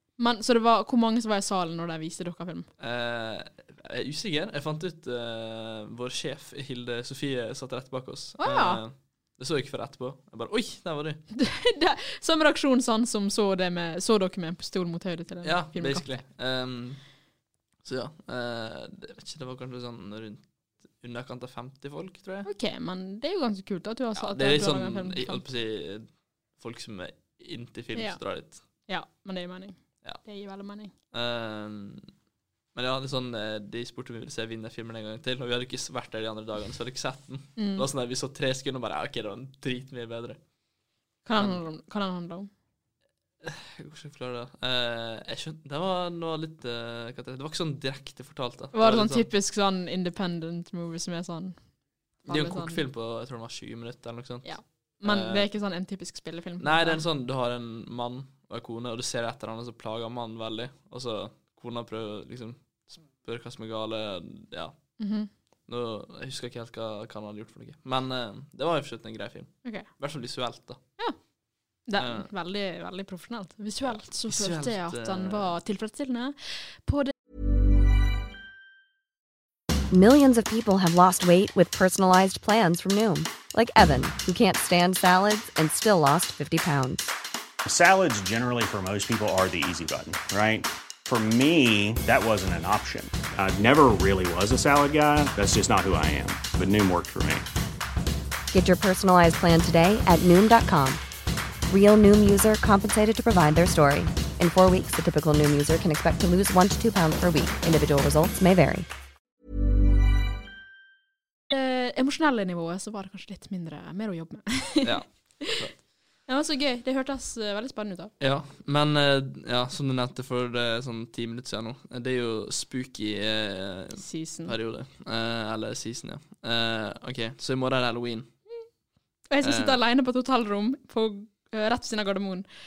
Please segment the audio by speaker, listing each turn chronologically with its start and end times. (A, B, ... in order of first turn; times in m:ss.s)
0:00.2-0:02.7 A
0:02.8-0:11.2 B
0:08.4-0:08.8 A
0:11.4-0:16.2 A
0:15.4-0:17.0 B
0:17.8-0:20.4 B
0:21.0-0:22.5 B
0:22.4-0:25.4 A
0:24.2-0:26.1 B
0:26.6-0:28.6 B
0:28.9-0:30.9 A
0:31.1-0:32.1 B
0:32.8-0:40.4 B
0:37.6-0:37.8 A
0:41.2-0:42.5 A
0:43.4-0:49.3 B
0:48.7-0:51.6 A
0:52.2-0:52.8 A
0:52.3-0:54.5 B
0:54.4-0:57.0 A
0:55.0-0:55.5 B
0:56.6-1:04.8 B
1:05.0-1:05.3 A
1:05.7-1:10.8 B
1:11.9-1:17.1 A
1:12.0-1:12.3 B
1:13.9-1:15.5 B
1:19.9-1:27.1 C
1:27.6-1:37.5 D
1:38.5-1:41.0 C
1:41.7-1:48.9 C
1:51.5-1:55.6 A
1:54.8-1:55.8 B
1:56.3-1:58.1 A
1:58.2-2:08.3 B
2:04.0-2:04.6 A
2:09.3-2:12.5 A
2:09.4-2:09.8 B